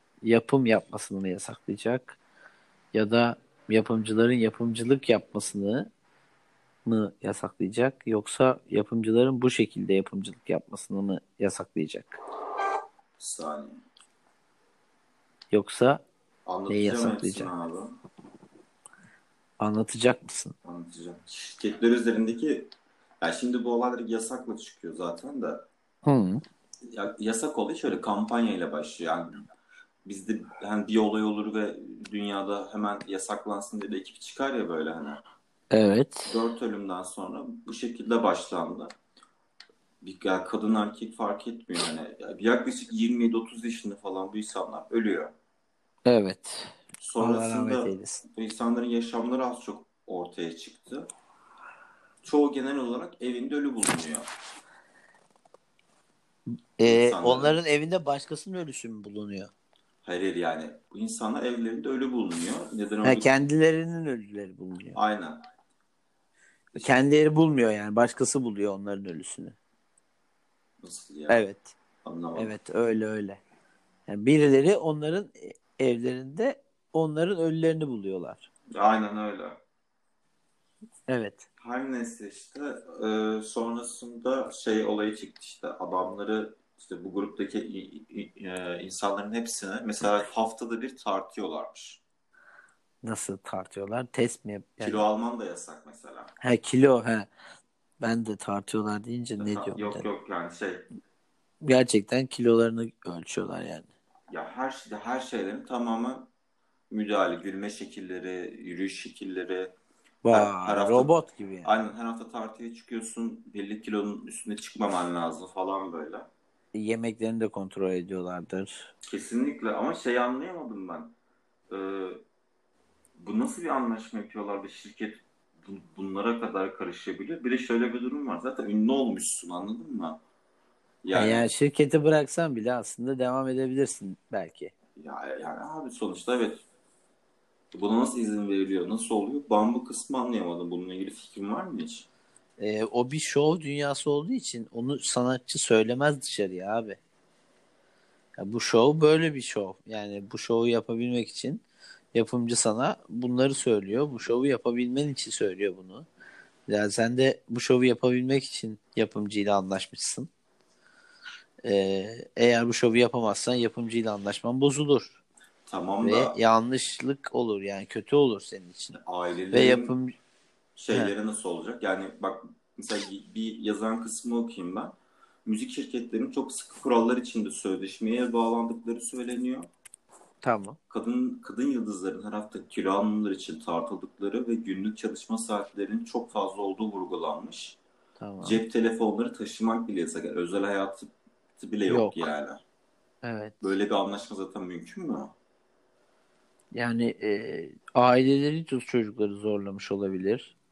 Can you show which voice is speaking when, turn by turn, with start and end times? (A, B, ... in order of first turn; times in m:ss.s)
0:00.2-0:02.2 A
0:02.9-0:05.9 A
0:06.8-0:12.2 A
0:13.2-0:13.8 B
0:15.5-0:16.0 A
0:16.5-0:18.0 B
0:16.7-0:17.5 A
0:19.6-0:20.6 A
0:20.6-0:25.7 B
0:26.0-0:26.4 A
0:26.9-0:29.5 B
0:30.0-0:35.2 B
0:35.7-0:36.4 A
0:36.3-0:39.0 B
0:40.0-0:45.3 B
0:46.1-0:48.2 A
0:47.0-0:51.1 B
0:52.2-0:54.3 B
0:56.5-0:59.5 A
0:56.8-0:57.6 B
1:00.0-1:03.3 B
1:03.0-1:05.0 A
1:04.9-1:05.4 B
1:06.7-1:07.0 B
1:06.8-1:09.6 A
1:10.8-1:11.4 B
1:11.3-1:11.8 A
1:12.0-1:12.5 B
1:12.4-1:13.4 A
1:14.1-1:18.5 A
1:18.7-1:19.6 B
1:21.1-1:21.5 A
1:21.6-1:32.0 B
1:33.0-1:35.0 A
1:34.8-1:36.3 B
1:36.4-1:37.3 A
1:38.0-1:40.0 A
1:39.4-1:40.9 B
1:41.6-1:43.9 A
1:44.3-1:46.3 B
1:46.9-1:49.7 B
1:50.2-1:51.7 A
1:50.3-1:56.3 B
1:56.7-1:58.9 A
1:59.1-2:01.2 B
2:01.7-2:02.2 B
2:03.2-2:10.2 B
2:11.0-2:11.5 B
2:11.1-2:14.7 A
2:15.0-2:16.6 B
2:17.7-2:22.1 B
2:22.6-2:27.0 A
2:28.4-2:31.6 A
2:32.1-2:36.1 A
2:36.7-2:40.3 A
2:41.6-2:45.2 A
2:45.7-2:46.4 B
2:46.0-2:49.0 A
2:49.0-2:50.0 B
2:49.5-2:50.2 A
2:50.8-2:59.7 B
3:00.4-3:00.8 A
3:00.9-3:07.8 B
3:08.2-3:08.6 A
3:08.4-3:12.6 B
3:11.9-3:12.3 A
3:13.2-3:13.7 A
3:13.6-3:15.3 B
3:16.7-3:20.5 A